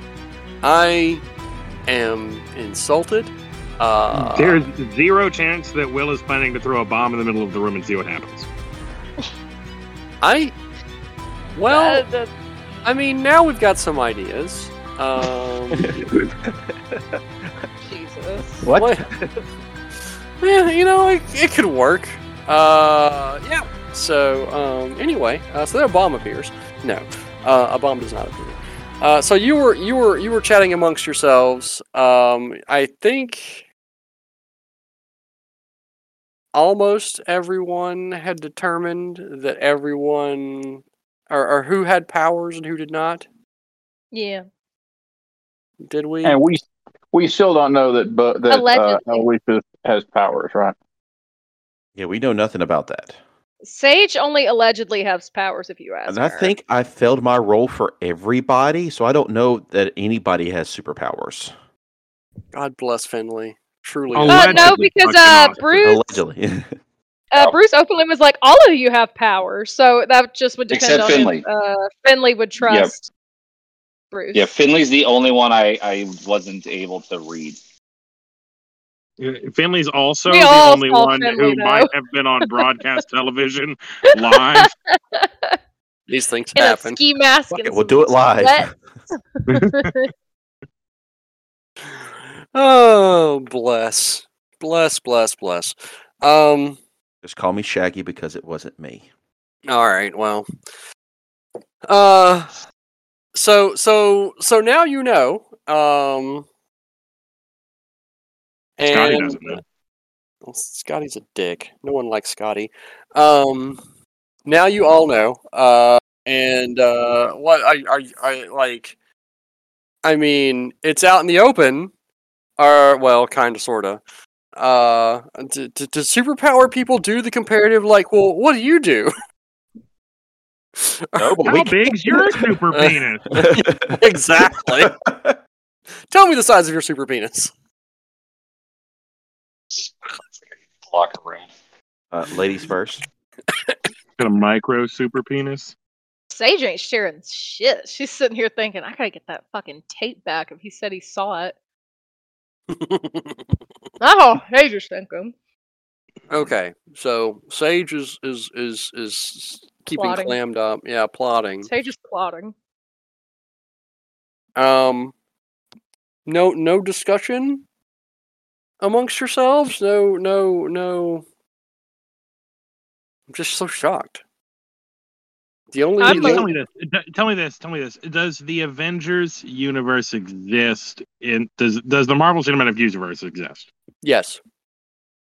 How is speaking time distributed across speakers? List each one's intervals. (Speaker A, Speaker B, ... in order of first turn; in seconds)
Speaker A: 0.6-1.2, 1.9-4.7, 10.2-10.5, 11.6-12.1, 12.8-16.0, 18.8-19.1, 20.4-33.6, 36.5-43.2, 45.8-46.4, 62.5-64.7, 86.1-87.0, 91.9-96.8, 99.7-100.5, 101.8-102.6, 103.3-106.4, 108.8-109.6, 110.4-113.8, 114.4-118.9, 120.0-121.9, 122.6-124.0, 124.5-129.1, 130.8-131.6, 132.7-134.9, 136.1-137.5, 152.7-153.6, 156.3-161.7, 164.6-165.1, 166.2-167.6, 168.8-171.2, 173.3-174.2, 175.7-176.5, 184.0-184.4
Speaker B: 4.3-8.5, 64.1-65.6, 79.2-84.7, 89.5-89.9, 108.9-109.6, 131.4-133.3, 144.2-145.7, 176.0-183.7
Speaker C: 11.7-12.3, 17.8-18.7, 44.1-44.4, 48.5-49.2, 53.6-56.5, 64.3-66.2, 67.3-73.1, 74.1-74.5, 80.3-81.9, 84.1-85.6, 86.5-90.1, 146.3-151.5, 154.0-155.3, 159.9-160.4, 161.7-162.5, 176.0-176.5
Speaker D: 15.8-17.5, 18.6-19.4, 52.0-53.2, 56.1-61.5, 65.8-66.7, 87.5-88.7, 97.2-99.0, 131.2-132.4, 133.3-135.4, 142.1-143.0
Speaker E: 46.2-50.7
Speaker F: 70.7-71.5, 72.6-72.9, 74.3-77.6, 140.7-141.5